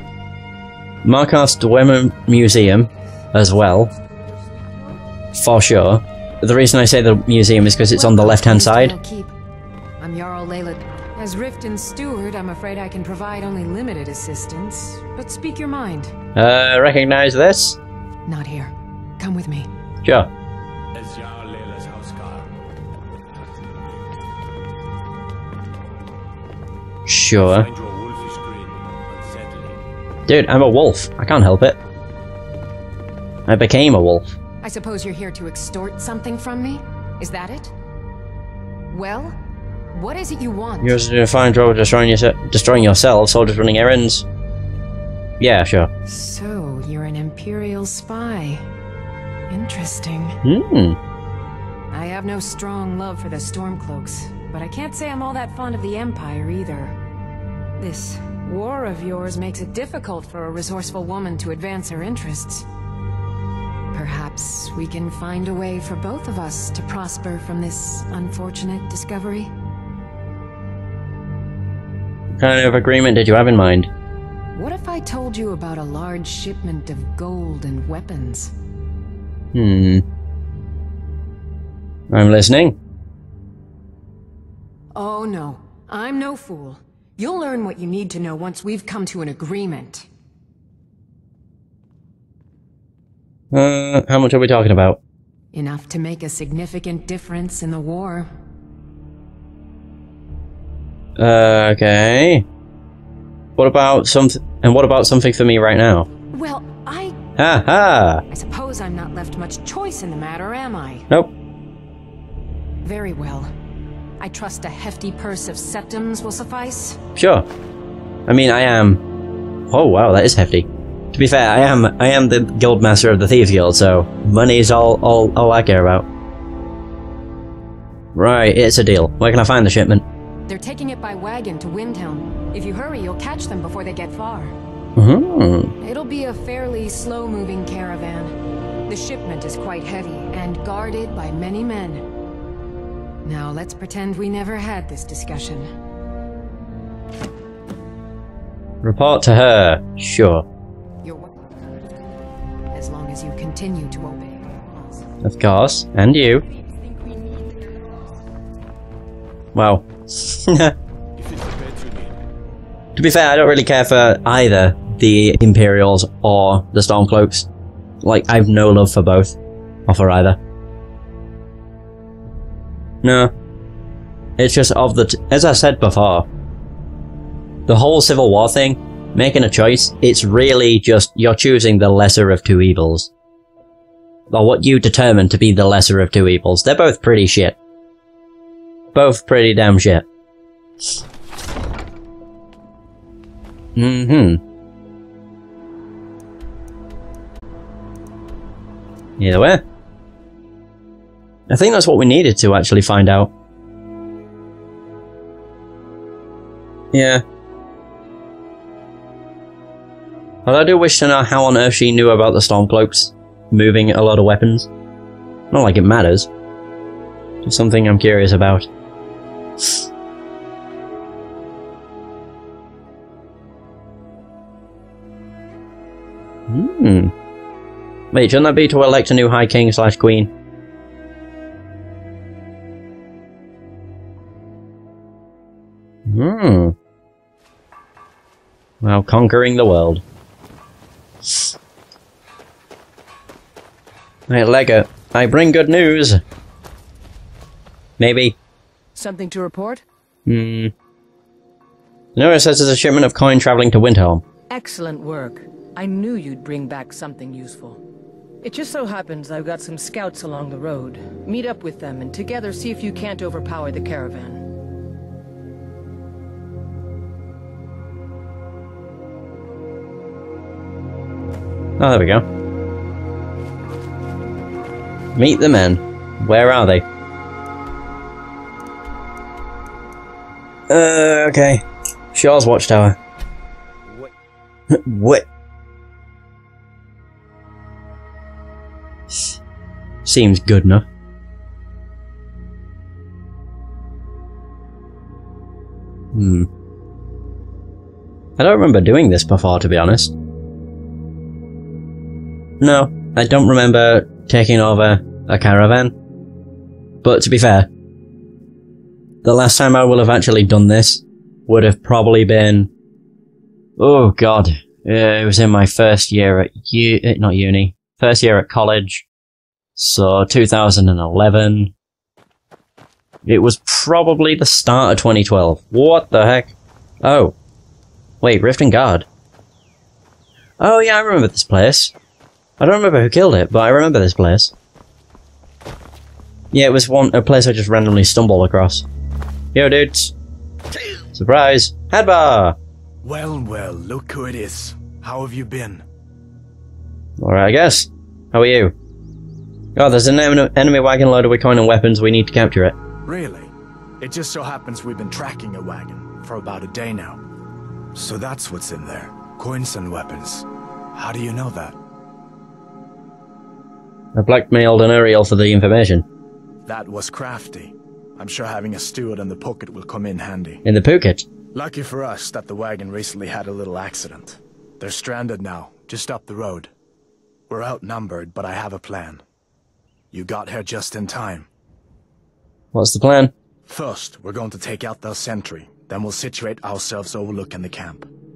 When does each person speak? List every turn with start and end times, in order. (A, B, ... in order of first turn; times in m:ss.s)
0:01.0-0:03.9 A
0:05.3-0:09.0 A
0:07.9-0:09.3 B
0:10.0-0:16.1 B
0:16.4-0:17.8 A
0:18.3-0:19.7 B
0:20.9-0:22.5 C
0:27.1-0:27.7 A
0:27.4-0:29.8 C
0:30.3-0:31.8 A
0:33.5-0:34.2 A
0:34.6-0:37.7 B
0:38.9-0:39.4 B
0:39.9-0:41.1 B
0:40.8-0:44.3 A
0:45.4-0:45.9 A
0:46.1-0:48.6 B
0:49.5-0:50.4 B
0:50.4-0:51.0 A
0:51.9-0:57.0 B
0:57.8-1:02.7 B
1:03.9-1:09.5 B
1:12.4-1:13.9 A
1:14.6-1:18.5 B
1:19.5-1:20.0 A
1:22.1-1:22.8 A
1:25.0-1:30.1 B
1:33.5-1:35.0 A
1:35.5-1:38.3 B
1:41.2-1:42.4 A
1:43.6-1:46.1 A
1:46.3-1:47.2 B
1:47.4-1:48.2 A
1:48.3-1:51.0 B
1:52.8-1:53.5 B
1:54.2-1:57.0 B
1:57.2-1:57.5 A
1:58.3-1:59.0 A
1:59.7-2:06.1 A
2:08.2-2:10.0 A
2:10.5-2:14.6 B
2:15.0-2:15.7 A
2:15.8-2:18.3 B
2:18.9-2:22.1 B
2:23.2-2:25.7 B
2:28.8-2:30.4 A
2:31.0-2:31.7 B
2:32.7-2:35.1 B
2:35.2-2:36.4 A
2:36.6-2:37.9 B
2:39.6-2:40.7 A
2:41.2-2:42.2 C
2:43.0-2:47.5 A
2:48.0-2:49.4 A
2:49.9-2:50.4 A
2:53.0-2:53.3 A
2:54.4-2:56.3 A
2:57.7-3:03.1 A
3:04.3-3:07.6 A
3:08.9-3:10.0 A
3:13.8-3:14.4 A
3:19.2-3:19.6 A
3:21.5-3:23.3 A
3:26.9-3:27.2 A
3:30.5-3:34.7 A
3:35.5-3:36.3 A
3:37.4-3:38.7 A
3:46.5-3:47.1 A
3:48.1-3:50.3 A
3:56.1-3:56.8 A
3:58.8-4:00.0 A
4:04.3-4:06.2 A
4:08.0-4:08.4 A
4:09.0-4:09.8 D
4:10.3-4:10.7 A
4:12.2-4:14.2 A
4:14.5-4:17.8 D
4:18.4-4:24.4 D
4:31.8-4:32.2 A
4:35.2-4:36.8 A
4:40.7-4:43.0 A
4:44.7-4:45.2 A
4:50.1-4:50.8 A
4:56.1-4:56.5 A
4:58.4-5:00.1 A
5:02.6-5:05.9 A
5:07.0-5:07.7 A
5:09.2-5:12.7 A
5:13.8-5:19.0 A
5:19.8-5:21.7 A
5:23.2-5:27.4 A
5:28.2-5:29.1 A
5:30.6-5:31.9 A
5:32.6-5:34.5 A
5:36.5-5:38.8 A
5:39.6-5:40.1 A
5:41.1-5:42.6 A
5:43.0-5:45.8 E
5:47.2-5:48.7 A
5:49.8-5:52.8 A
5:53.1-5:57.2 E
5:58.0-6:01.8 E
6:04.2-6:06.0 A
6:06.7-6:10.6 E
6:10.6-6:11.2 A
6:11.5-6:16.7 E
6:17.5-6:19.2 E
6:20.1-6:21.5 E
6:22.7-6:23.3 A
6:23.7-6:28.1 E